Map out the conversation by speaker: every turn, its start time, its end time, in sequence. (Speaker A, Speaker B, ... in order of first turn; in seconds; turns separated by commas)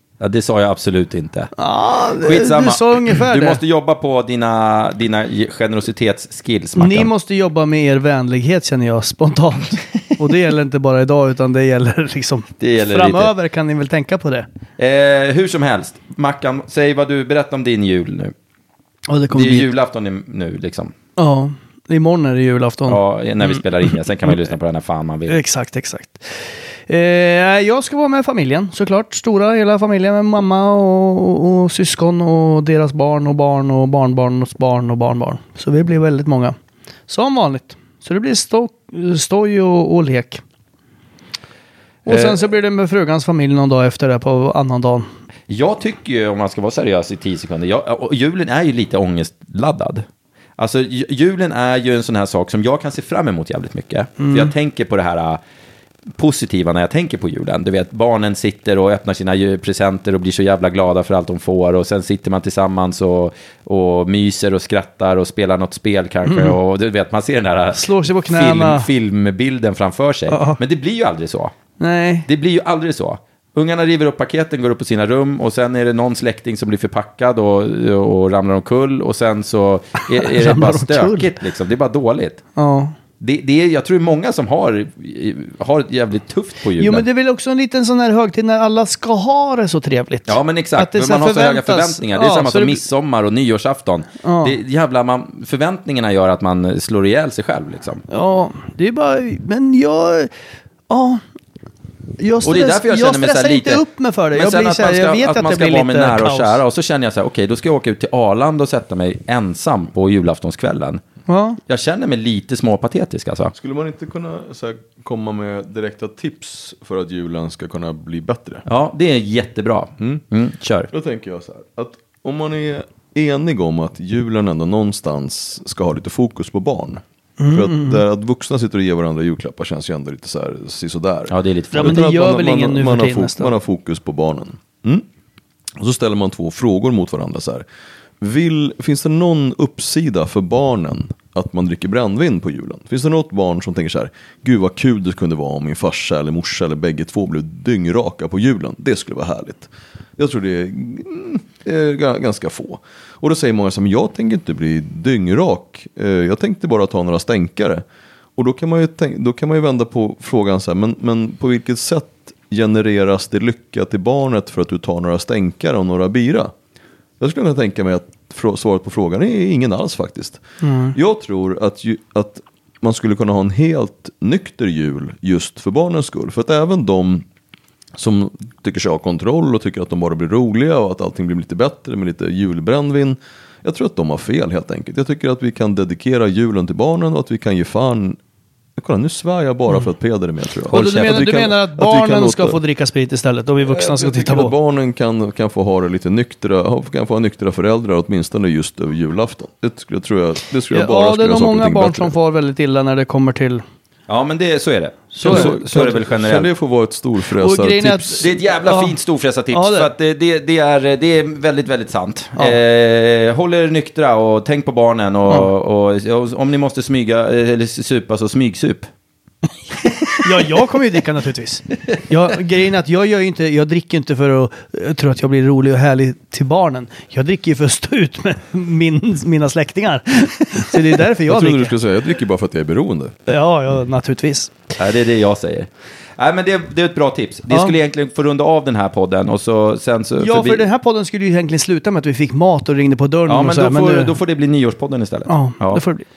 Speaker A: 0.2-1.5, Speaker B: 1.6-3.6, Speaker A: 2.2-7.1, Speaker B: 6.8-14.5, Speaker A: 12.6-13.3, Speaker A: 14.8-18.3, Speaker B: 19.1-19.7, Speaker A: 19.3-20.9, Speaker B: 21.2-23.9, Speaker A: 22.9-25.4, Speaker B: 25.3-36.5, Speaker B: 37.1-40.4, Speaker B: 42.1-45.1, Speaker A: 42.1-42.4, Speaker A: 45.5-50.1, Speaker A: 50.6-55.4, Speaker B: 54.2-54.5, Speaker A: 56.2-71.5, Speaker B: 66.3-66.6, Speaker B: 67.7-68.9, Speaker B: 70.3-70.6, Speaker B: 71.8-72.3, Speaker A: 72.3-82.4, Speaker B: 80.0-81.3, Speaker B: 82.6-82.9, Speaker A: 83.2-87.0, Speaker B: 86.8-92.8, Speaker A: 90.3-98.0, Speaker B: 94.2-94.6, Speaker B: 98.1-100.3, Speaker B: 100.9-101.2, Speaker B: 102.2-106.6, Speaker A: 102.4-111.0, Speaker B: 111.3-111.6, Speaker A: 111.7-113.5, Speaker C: 113.5-118.7, Speaker A: 118.7-120.9, Speaker C: 120.9-135.1, Speaker B: 127.4-128.0, Speaker A: 131.3-132.1, Speaker B: 131.7-133.5, Speaker C: 135.8-137.7, Speaker C: 138.2-157.8, Speaker C: 158.4-166.5, Speaker C: 167.2-170.4, Speaker B: 170.6-171.0, Speaker C: 170.9-177.2, Speaker C: 177.9-188.2, Speaker C: 188.8-192.6, Speaker B: 190.7-194.5, Speaker C: 193.6-202.2, Speaker B: 200.7-203.6, Speaker A: 204.1-206.5, Speaker B: 205.1-205.5, Speaker C: 205.2-208.2, Speaker B: 207.4-208.9, Speaker A: 208.2-218.9, Speaker B: 209.5-209.9, Speaker B: 219.9-231.8, Speaker C: 231.2-233.2, Speaker B: 233.3-234.5, Speaker A: 234.8-240.7, Speaker B: 237.5-237.8, Speaker B: 240.2-244.2, Speaker A: 243.3-245.8, Speaker B: 245.3-246.1